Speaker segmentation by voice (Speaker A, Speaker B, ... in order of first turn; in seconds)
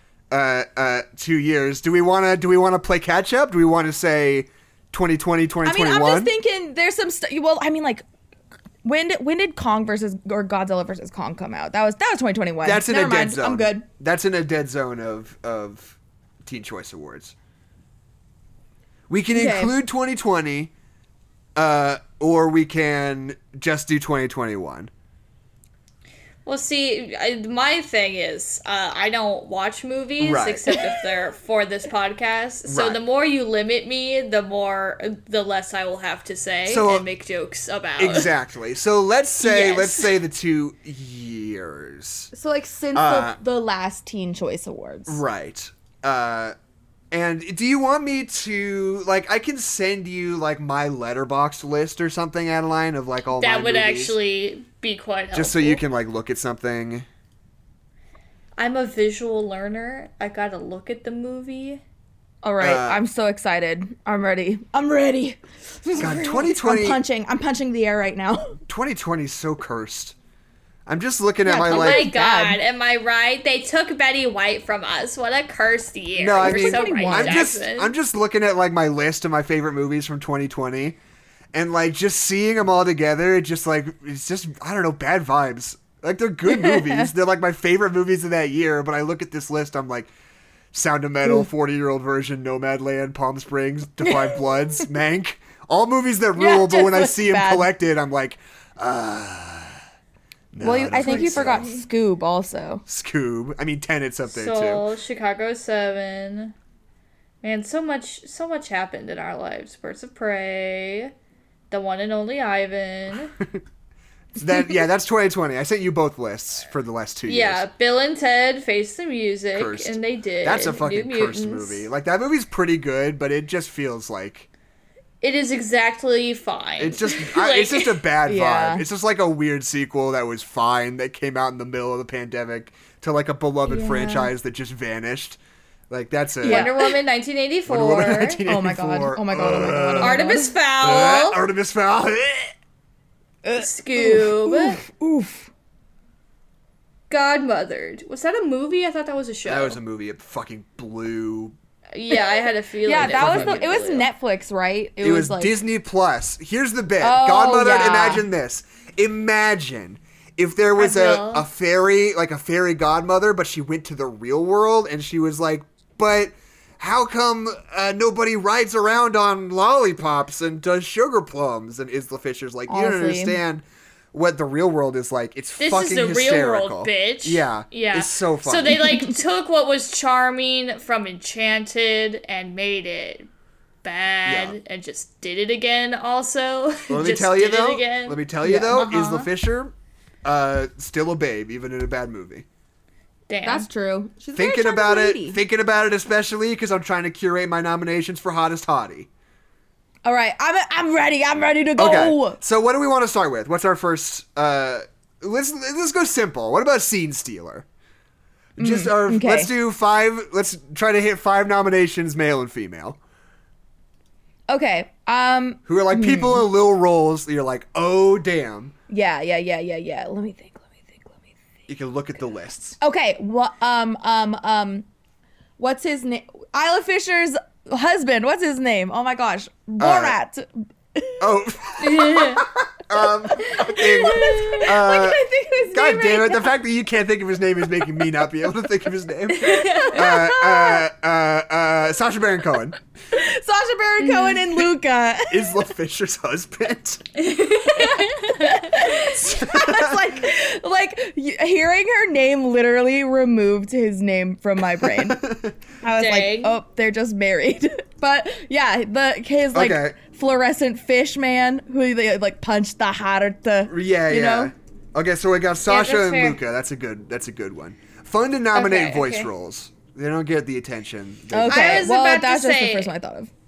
Speaker A: 0.3-6.3, 12.6-17.3, 19.1-20.7, 21.6-24.9, 30.2-30.9, 32.6-33.0, 36.6-37.0, 38.0-42.3, 42.9-43.4, 45.1-46.5, 47.1-54.1, 55.3-57.1, 62.6-63.0, 66.0-67.0, 68.7-70.1, 70.9-72.1, 76.2-81.0, 81.5-90.1, 90.7-99.8, 100.5-101.7, 102.8-104.8, 114.3-117.6, 119.5-124.5, 126.8-135.4, 135.9-136.7, 137.7-142.5, 149.4-151.5, 152.9-153.7, 155.0-179.0, 184.2-184.6, 186.9-189.7, 190.2-192.4, 194.3-199.1, 201.8-207.7, 208.6-213.0, 215.7-218.7, 221.7-222.8, 229.8-230.2, 231.2-242.8, 245.3-247.0, 249.1-250.2, 254.8-255.6, 259.5-260.0, 263.7-271.9
Speaker B: 5.6-8.0, 8.8-13.8, 19.3-19.7, 42.3-45.2, 62.4-68.6, 71.4-72.6, 76.4-77.5, 86.5-87.1, 94.0-94.3, 96.3-97.7, 100.6-102.8, 128.3-128.8, 136.4-137.0, 138.4-140.5, 143.4-145.5, 152.1-155.5, 157.0-158.2, 172.7-173.4, 188.4-188.8, 193.4-195.4, 200.0-202.4, 208.6-209.5, 214.5-216.4, 218.9-221.3, 222.8-224.8, 225.6-231.2, 233.4-236.5, 239.4-240.8, 243.1-245.5, 247.7-255.2, 255.8-264.5, 271.3-273.3
Speaker C: 26.4-38.3, 39.4-40.1, 53.4-55.8, 58.6-61.8, 71.7-77.9, 101.0-101.8, 104.3-106.5, 107.4-111.1, 111.7-113.3, 117.3-121.8, 125.2-128.0, 133.7-134.2, 136.4-138.4, 140.0-141.4, 143.6-144.8, 147.1-149.8, 151.9-154.1, 160.8-161.5, 175.6-183.3, 183.8-189.3, 193.3-193.7, 231.8-232.4, 239.4-240.0, 244.0-244.7, 247.2-248.8, 255.9-256.6, 265.7-266.4, 268.5-269.3, 271.5-272.9